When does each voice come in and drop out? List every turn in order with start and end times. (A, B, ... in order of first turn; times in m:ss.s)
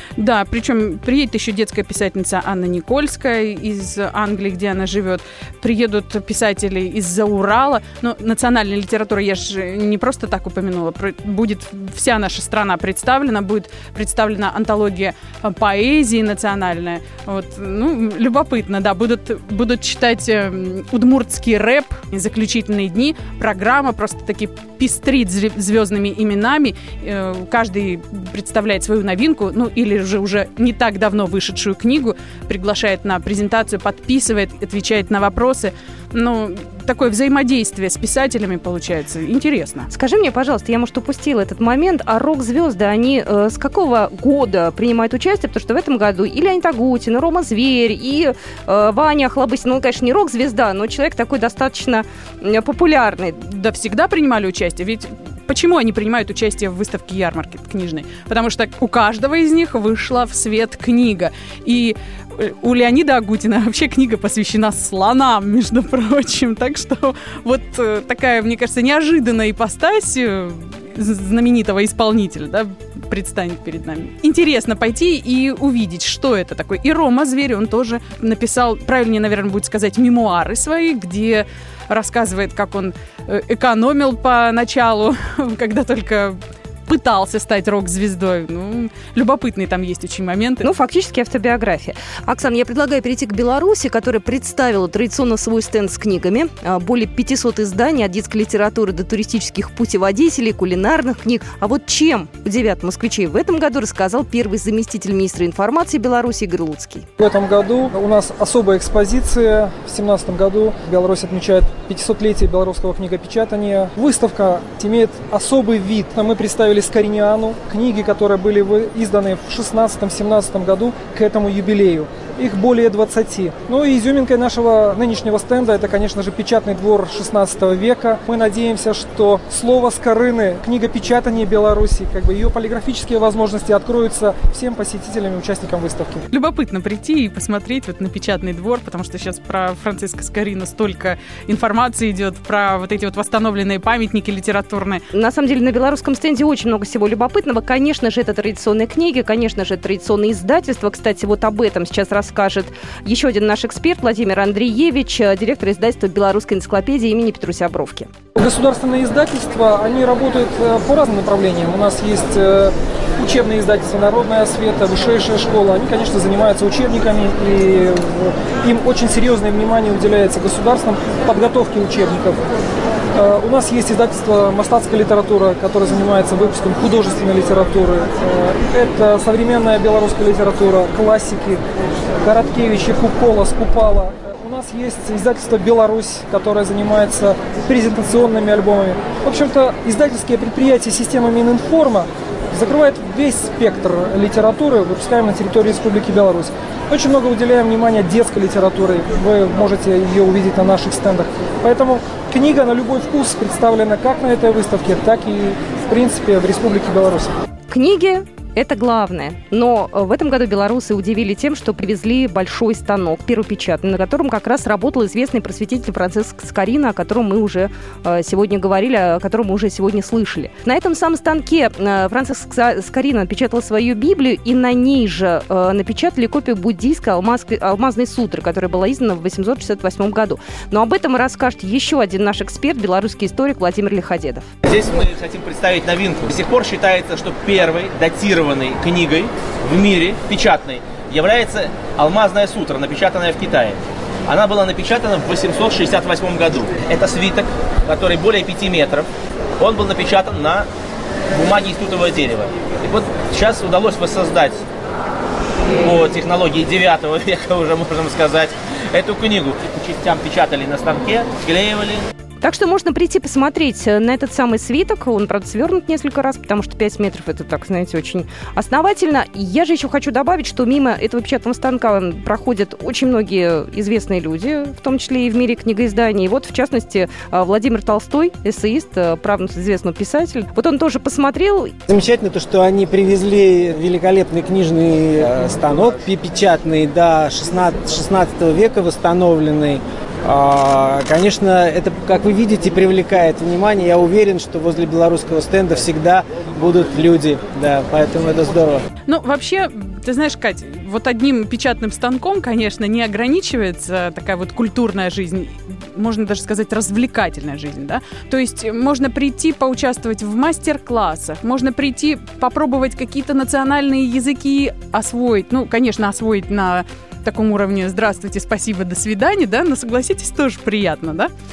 0:00.2-0:39.9 A
0:39.9-0:53.4 B
0:53.5-1:30.6 A
1:30.6-1:47.1 B
1:47.2-2:16.2 C
2:16.3-2:25.0 A
2:25.1-2:38.1 B
2:38.4-2:52.4 C
2:53.2-3:01.6 C
3:02.2-3:27.3 C
3:27.7-3:54.5 B
3:54.6-4:09.1 D
4:09.6-4:10.7 D
4:11.3-4:14.6 D
4:15.8-4:22.0 D
4:22.4-4:41.7 B
4:41.9-4:58.8 E
4:59.0-5:21.3 A